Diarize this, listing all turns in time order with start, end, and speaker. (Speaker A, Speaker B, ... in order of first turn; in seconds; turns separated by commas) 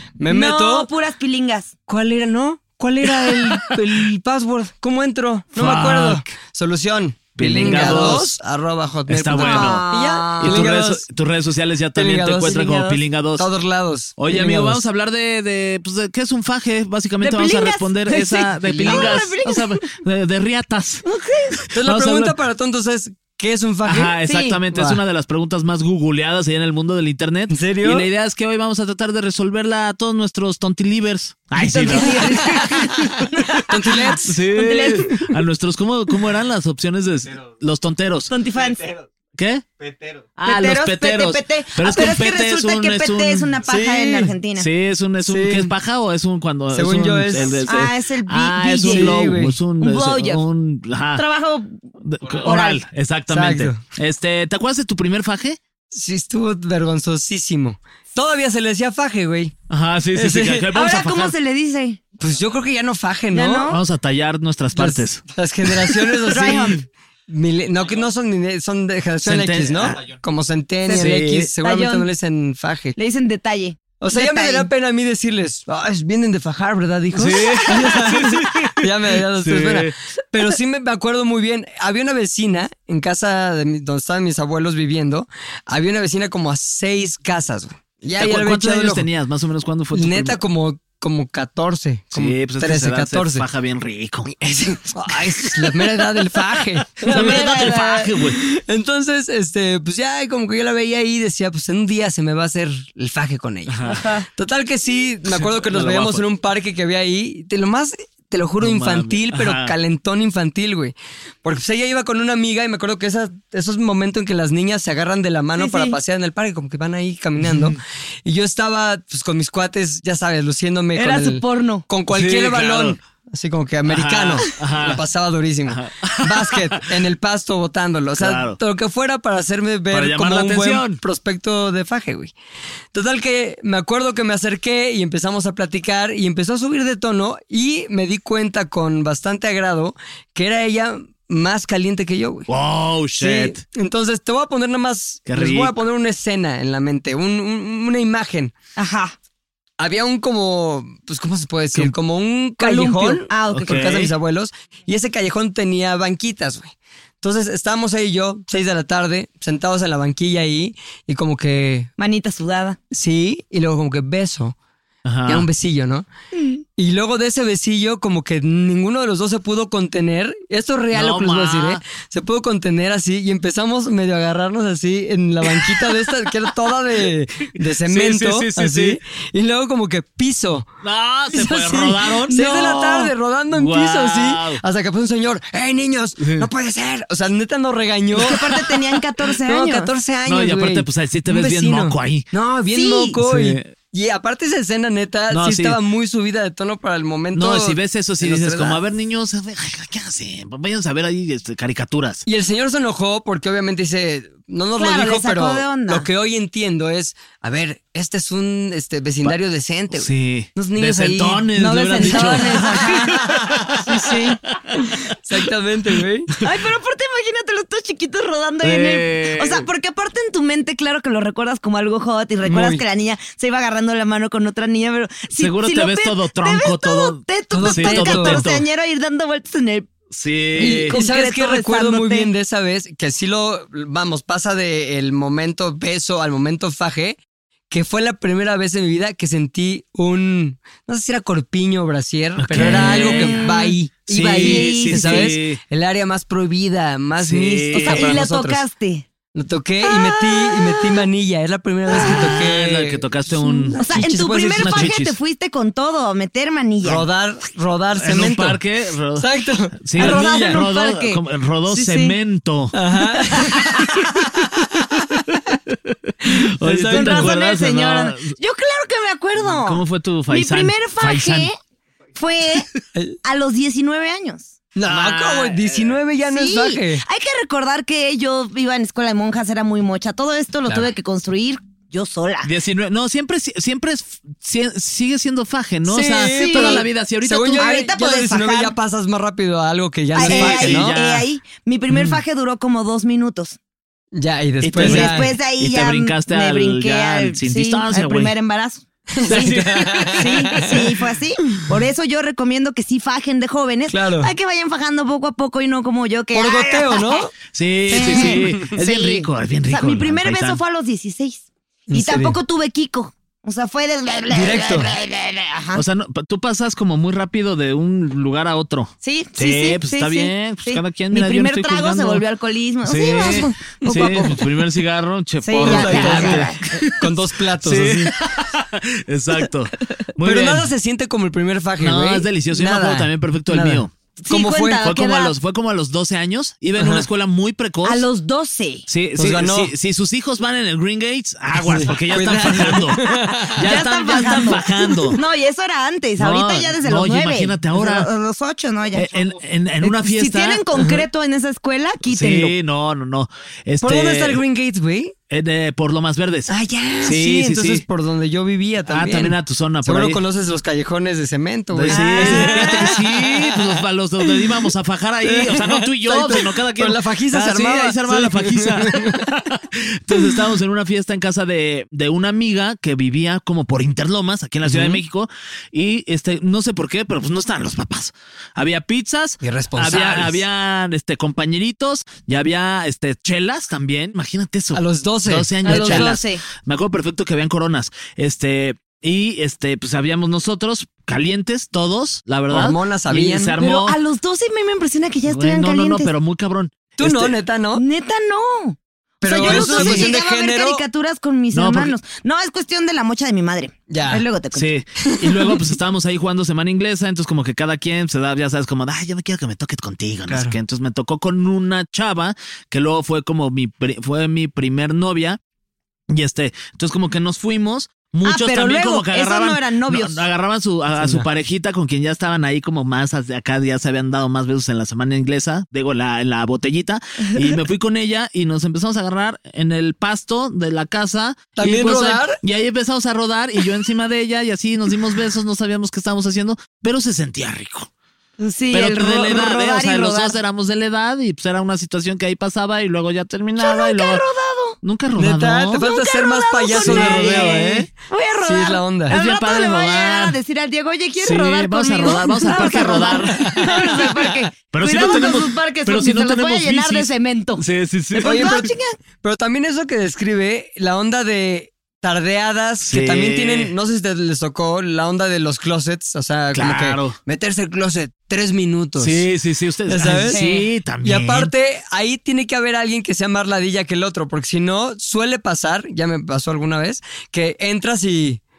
Speaker A: 0.2-0.9, Speaker B: 0.3-1.7, Speaker A: 1.9-11.0, Speaker C: 3.2-3.7, Speaker C: 5.5-6.2, Speaker C: 7.4-8.4, Speaker B: 7.7-8.1, Speaker C: 9.1-9.8, Speaker B: 9.4-10.6, Speaker C: 10.4-13.4, Speaker A: 11.9-14.8, Speaker C: 14.2-21.0, Speaker B: 17.2-19.8, Speaker A: 18.6-19.3, Speaker B: 21.0-21.7, Speaker A: 21.7-24.1, Speaker C: 21.7-22.4, Speaker C: 23.8-38.4, Speaker B: 24.2-24.6, Speaker A: 24.7-25.0, Speaker A: 27.5-28.1, Speaker B: 31.6-35.1, Speaker A: 33.7-34.4, Speaker B: 38.3-38.9, Speaker C: 39.3-43.6, Speaker B: 40.4-44.7, Speaker A: 43.6-44.3, Speaker C: 44.5-51.2, Speaker A: 45.2-45.7, Speaker A: 46.7-47.6, Speaker B: 47.6-49.2, Speaker A: 48.9-49.6, Speaker B: 49.8-50.4, Speaker B: 51.1-51.8, Speaker C: 52.0-55.6, Speaker B: 52.4-52.8, Speaker A: 53.3-53.8, Speaker A: 55.9-59.5, Speaker C: 59.7-61.3, Speaker A: 60.1-60.7, Speaker B: 60.7-62.0, Speaker A: 62.2-63.7, Speaker B: 63.3-63.8, Speaker C: 63.7-66.0, Speaker A: 64.7-73.0, Speaker B: 66.3-66.8, Speaker C: 69.2-70.0, Speaker B: 70.8-72.1, Speaker C: 70.9-71.5, Speaker B: 73.0-74.7, Speaker A: 74.0-89.1, Speaker C: 77.1-79.9, Speaker C: 88.2-90.4, Speaker A: 89.9-93.5, Speaker C: 92.1-94.3, Speaker A: 94.2-97.7, Speaker C: 97.0-98.4, Speaker B: 97.0-98.1, Speaker A: 98.3-132.3, Speaker C: 103.7-104.0, Speaker B: 103.9-104.2, Speaker C: 105.2-106.2, Speaker C: 108.6-109.7, Speaker B: 115.6-116.0, Speaker C: 117.4-117.8, Speaker B: 121.0-121.8, Speaker C: 122.1-123.0, Speaker C: 123.8-125.0, Speaker C: 125.7-126.8, Speaker C: 128.2-128.6, Speaker C: 129.9-131.0, Speaker A: 132.9-142.5, Speaker C: 142.5-143.6, Speaker A: 143.2-148.5, Speaker C: 145.3-145.8, Speaker B: 148.8-149.2, Speaker A: 149.8-161.9, Speaker B: 152.6-153.8, Speaker C: 153.5-154.1, Speaker B: 162.0-162.8, Speaker A: 162.9-164.5, Speaker C: 165.0-165.5, Speaker A: 165.3-166.1, Speaker B: 166.3-166.6, Speaker A: 166.8-180.7, Speaker C: 170.9-171.8, Speaker C: 177.6-179.0, Speaker C: 180.8-184.6, Speaker A: 181.3-198.8, Speaker B: 182.3-182.8, Speaker C: 186.2-186.5, Speaker B: 188.2-189.9, Speaker C: 190.2-192.2, Speaker B: 192.7-193.2, Speaker C: 193.2-193.7, Speaker C: 195.3-195.8, Speaker C: 197.3-202.2, Speaker A: 202.2-212.9, Speaker B: 204.8-206.1, Speaker C: 209.9-213.9, Speaker B: 211.6-213.2, Speaker B: 213.9-214.3, Speaker A: 213.9-216.3, Speaker B: 216.4-229.9, Speaker C: 218.6-219.7, Speaker A: 222.4-222.8, Speaker C: 225.3-228.7, Speaker A: 227.5-228.4, Speaker C: 230.1-231.0, Speaker A: 230.6-237.2, Speaker B: 230.6-232.3, Speaker A: 237.7-248.6, Speaker C: 242.4-243.5, Speaker B: 242.7-245.3, Speaker C: 244.1-245.6, Speaker C: 247.2-248.2, Speaker B: 247.7-249.1, Speaker A: 249.3-253.1, Speaker B: 249.8-251.0, Speaker C: 252.0-255.2, Speaker B: 253.4-257.0, Speaker A: 253.7-254.9, Speaker A: 256.8-258.6, Speaker C: 257.9-259.3, Speaker A: 259.1-260.6, Speaker C: 259.8-262.8, Speaker B: 260.0-262.2, Speaker A: 262.7-263.5, Speaker C: 263.4-268.3, Speaker B: 263.4-263.9, Speaker A: 266.6-267.3, Speaker B: 266.9-271.6, Speaker C: 269.4-271.5, Speaker B: 272.1-272.7, Speaker B: 273.2-274.5, Speaker A: 274.7-277.0, Speaker C: 274.9-276.0, Speaker B: 276.3-282.5, Speaker C: 282.4-287.7, Speaker A: 285.9-290.9, Speaker B: 286.3-286.8, Speaker B: 287.6-288.7, Speaker B: 290.1-293.6, Speaker C: 290.2-291.3, Speaker C: 291.9-292.2, Speaker A: 294.1-295.4, Speaker C: 294.6-298.4, Speaker B: 294.8-307.3, Speaker A: 299.1-300.9, Speaker C: 299.2-300.8, Speaker A: 303.9-304.3, Speaker A: 306.3-307.3, Speaker C: 307.5-310.6, Speaker A: 307.9-308.6, Speaker B: 307.9-315.8, Speaker A: 311.9-312.4, Speaker A: 314.3-314.9, Speaker C: 315.7-322.2, Speaker B: 319.0-324.4, Speaker C: 322.8-330.7, Speaker B: 325.4-326.8, Speaker A: 325.6-328.1, Speaker A: 330.2-334.8, Speaker C: 331.8-333.9, Speaker B: 334.2-335.3, Speaker C: 334.8-338.1, Speaker A: 336.8-337.1, Speaker B: 337.8-338.9, Speaker C: 338.9-345.2, Speaker A: 339.1-339.7, Speaker A: 341.6-343.5, Speaker B: 343.0-349.1, Speaker C: 346.2-348.1, Speaker C: 348.9-350.6, Speaker B: 349.8-352.5, Speaker A: 350.8-351.0, Speaker C: 352.1-354.4, Speaker A: 353.8-355.1, Speaker C: 355.3-357.8, Speaker A: 356.5-363.8, Speaker C: 358.9-360.2, Speaker C: 361.7-394.0, Speaker B: 361.9-363.0, Speaker A: 365.2-369.3, Speaker A: 374.6-375.0, Speaker A: 379.4-380.4, Speaker A: 384.7-386.1, Speaker B: 385.6-386.4, Speaker A: 392.5-393.6, Speaker B: 393.6-396.1, Speaker C: 395.3-397.4, Speaker A: 397.0-397.8, Speaker B: 397.8-404.7, Speaker A: 399.2-400.8, Speaker C: 399.3-400.1, Speaker C: 401.5-402.0, Speaker A: 403.9-404.2, Speaker C: 404.5-415.4, Speaker A: 405.0-405.6, Speaker A: 410.3-410.6, Speaker C: 416.1-437.9, Speaker B: 418.2-420.2, Speaker A: 421.0-421.2, Speaker A: 431.6-432.4, Speaker B: 438.4-440.4, Speaker C: 438.7-444.2, Speaker B: 443.6-444.8, Speaker C: 444.8-445.8, Speaker A: 445.1-447.9, Speaker B: 445.8-458.9, Speaker C: 446.8-447.9, Speaker A: 448.4-449.1, Speaker C: 449.1-450.4, Speaker C: 451.2-454.1, Speaker A: 453.4-454.0, Speaker C: 454.7-458.6, Speaker A: 458.2-469.3, Speaker C: 462.8-463.7, Speaker C: 466.5-467.2, Speaker C: 469.0-471.5, Speaker A: 469.9-470.4, Speaker B: 470.3-470.7, Speaker A: 471.0-478.4